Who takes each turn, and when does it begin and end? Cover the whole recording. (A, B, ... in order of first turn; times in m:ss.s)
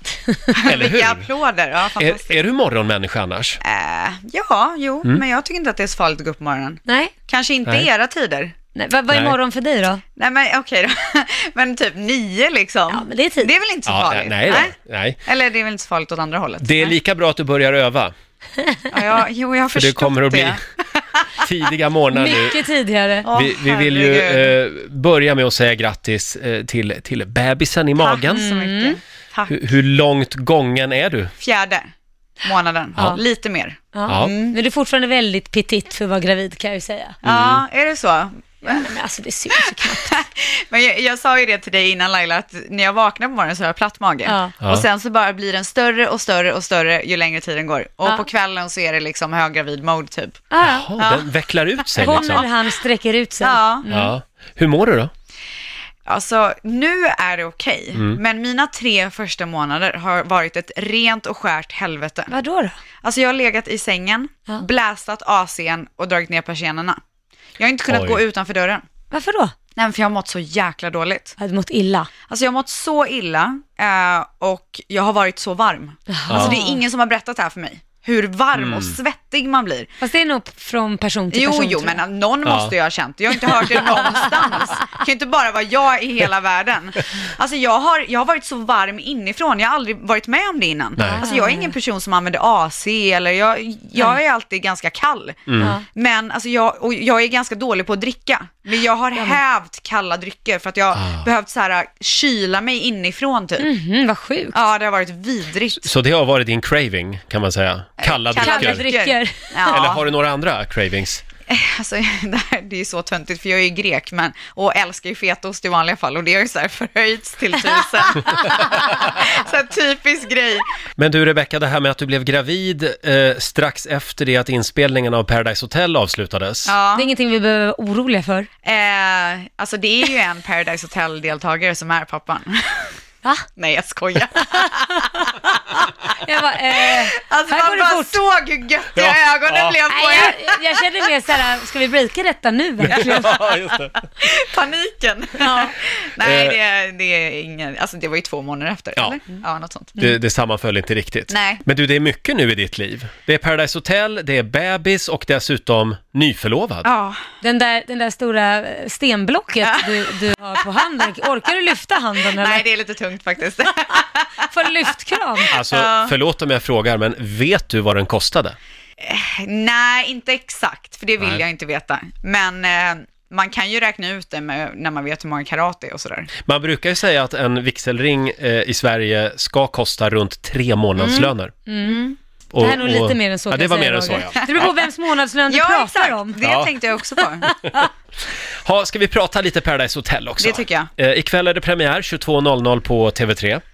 0:00.5-0:02.4 A
0:00.6-0:01.3 B
0:02.0-0:03.6 B
0:03.6-0:08.6 A
0:06.9-0:07.1 C
0:08.8-0:10.0 C
0:09.1-0:09.4 B
0:10.2-0:14.8 A
0:12.9-0:13.5 C
0:13.9-0:15.2 B
0:15.3-0:17.0 A
0:16.6-0:18.1 B
0:18.6-0:18.9 C
0:18.9-0:21.4 A
0:19.8-0:20.6 B
0:21.4-0:22.6 B
0:22.1-0:23.3 C
0:23.2-0:24.6 A
0:23.3-0:28.4 B
0:28.0-0:29.6 A
0:28.3-0:29.0 C
0:29.5-0:31.3 B
0:31.4-0:31.8 A
0:32.4-0:34.6 A
0:33.9-0:37.2 C
0:34.1-0:34.3 B
0:37.2-0:37.6 B
0:37.2-0:38.9 A
0:38.6-0:40.2 C
0:39.6-0:50.4 A
0:44.2-0:44.6 C
0:50.5-0:50.9 C
0:50.6-0:52.5 B
0:51.0-0:52.5 A
0:52.0-0:54.1 C
0:53.4-0:53.9 A
0:53.9-0:55.1 B
0:56.1-1:02.3 A
1:02.3-1:02.8 C
1:03.0-1:07.0 A
1:07.6-1:08.8 A
1:07.9-1:08.2 B
1:09.1-1:09.6 C
1:09.8-1:11.4 A
1:11.4-1:12.1 C
1:12.3-1:19.9 A
1:16.1-1:16.8 C
1:16.3-1:16.6 B
1:18.6-1:19.0 B
1:20.0-1:22.0 C
1:21.3-1:43.7 A
1:22.5-1:22.7 B
1:23.5-1:24.3 C
1:31.0-1:31.3 B
1:31.0-1:31.7 C
1:35.5-1:35.8 B
1:41.0-1:41.3 B
1:43.6-1:44.6 C
1:44.5-1:45.9 A
1:45.8-1:48.8 B
1:48.0-1:50.1 A
1:48.4-1:49.9 C
1:49.7-1:51.2 B
1:51.5-2:00.7 A
2:01.0-2:06.7 B
2:06.7-2:07.1 A
2:07.0-2:08.5 C
2:08.6-2:12.9 A
2:13.6-2:15.1 A
2:14.6-2:18.2 C
2:16.8-2:20.9 A
2:19.0-2:19.8 B
2:19.9-2:23.4 C
2:22.8-2:24.0 B
2:22.9-2:23.6 A
2:24.1-2:30.0 A
2:25.4-2:25.7 C
2:26.2-2:26.6 B
2:30.0-2:36.9 B
2:31.3-2:31.6 A
2:36.8-2:37.3 A
2:37.4-2:42.6 C
2:39.6-2:40.3 A
2:42.2-2:44.5 A
2:44.5-2:45.6 C
2:45.4-2:46.2 A
2:45.5-2:48.6 B
2:49.0-2:56.3 A
2:56.4-3:01.5 B
3:01.0-3:01.3 A
3:01.7-3:02.0 C
3:01.8-3:02.2 A
3:02.5-3:04.7 B
3:02.6-3:06.4 C
3:04.4-3:04.7 A
3:05.5-3:07.5 A
3:06.4-3:06.7 B
3:08.6-3:13.6 B
3:10.4-3:10.9 A